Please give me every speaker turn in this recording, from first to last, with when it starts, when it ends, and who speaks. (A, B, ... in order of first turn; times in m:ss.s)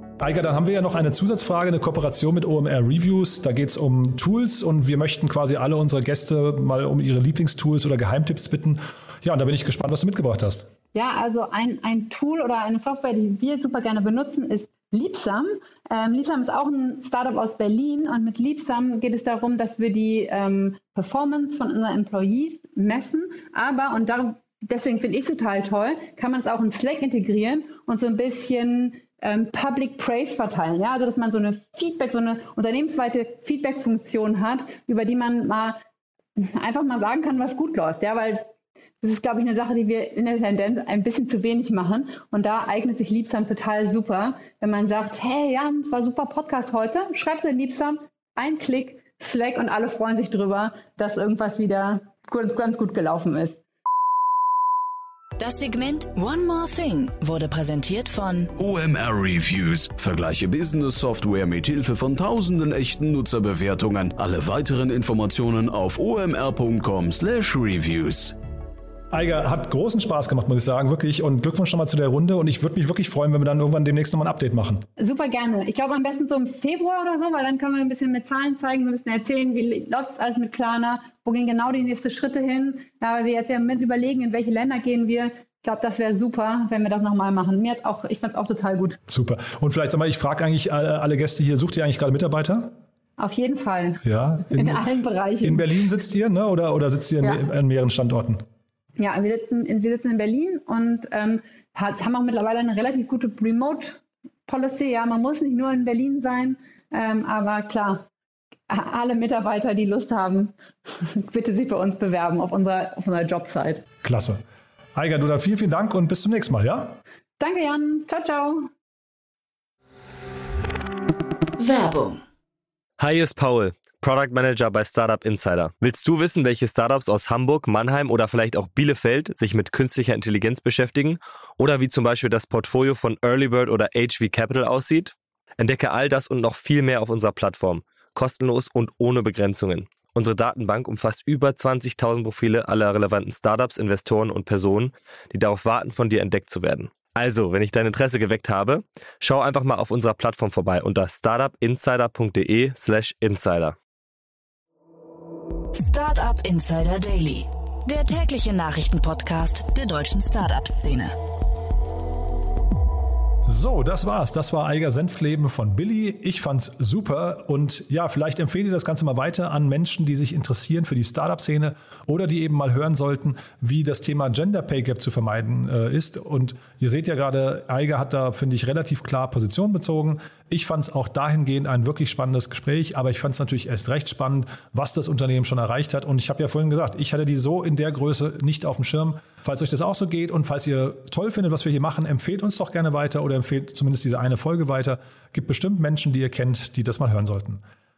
0:00.2-0:10.7 A
0:10.9-0:35.8 B
0:36.4-0:38.5 B
0:39.0-0:53.6 B
0:55.4-0:58.5 C
0:58.6-1:08.4 D
1:09.1-1:14.8 A
1:15.0-1:29.0 B
1:29.1-1:32.8 A
1:33.2-1:35.8 B
1:34.0-1:34.8 A
1:35.4-1:38.4 A
1:37.2-1:37.5 B
1:39.0-1:48.0 B
1:48.7-1:53.8 B
1:54.0-1:54.4 A
1:55.0-1:57.0 A
1:57.4-1:58.7 B
2:01.6-2:02.2 C
2:03.0-2:33.8 E
2:35.7-2:41.1 C
2:43.5-3:17.6 A